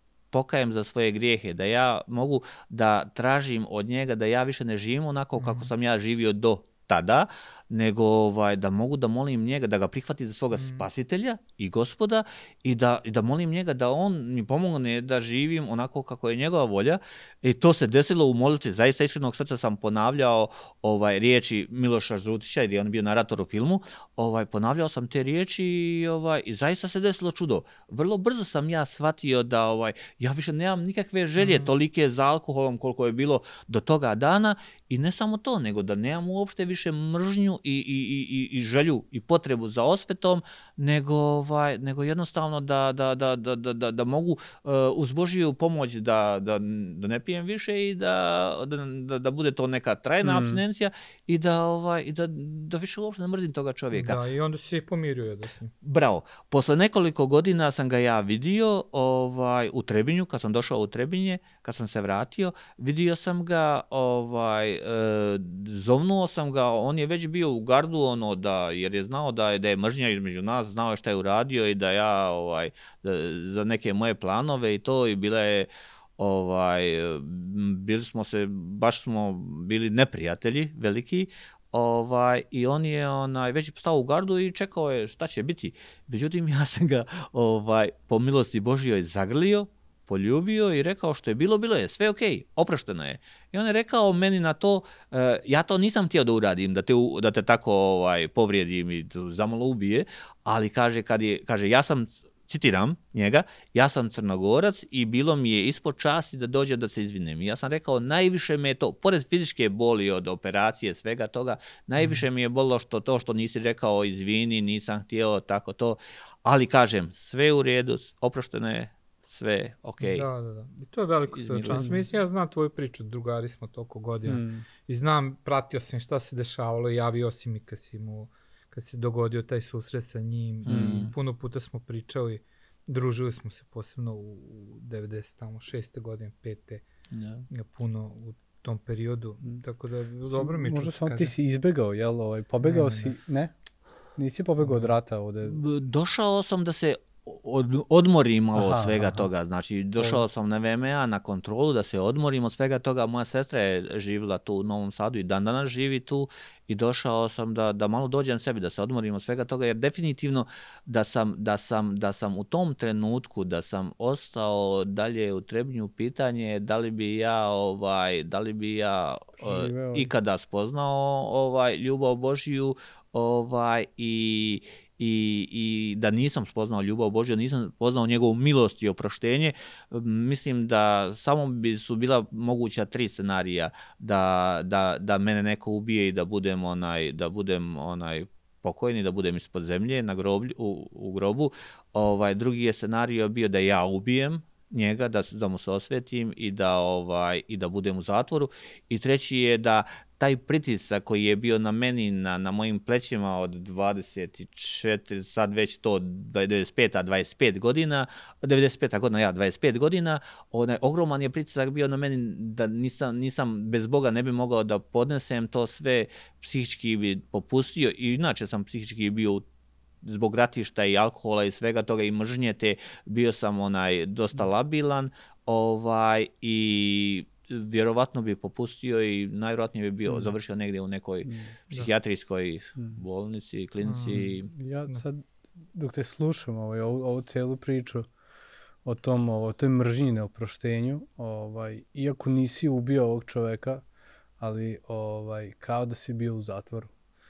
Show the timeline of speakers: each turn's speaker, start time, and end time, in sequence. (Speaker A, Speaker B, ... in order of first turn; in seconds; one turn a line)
Speaker A: 0.3-54.2
Speaker B: 5.3-5.7
Speaker B: 10.5-10.9
Speaker B: 31.4-31.7
Speaker C: 50.2-50.6
Speaker B: 53.9-55.7
Speaker A: 55.8-120.3
Speaker B: 112.0-112.2
Speaker B: 120.0-136.8
Speaker A: 121.3-122.0
Speaker C: 121.7-122.0
Speaker C: 124.2-124.7
Speaker A: 130.7-131.1
Speaker C: 130.7-131.1
Speaker A: 137.1-137.4
Speaker B: 137.5-141.3
Speaker C: 140.3-143.5
Speaker B: 142.6-143.2
Speaker C: 144.2-145.6
Speaker B: 144.6-144.9
Speaker A: 145.4-219.4
Speaker C: 148.5-149.3
Speaker C: 150.0-150.2
Speaker C: 169.4-170.1
Speaker A: 220.0-234.5
Speaker C: 231.2-231.5
Speaker B: 233.8-234.3
Speaker C: 234.1-238.1
Speaker C: 238.8-243.8
Speaker C: 244.4-246.9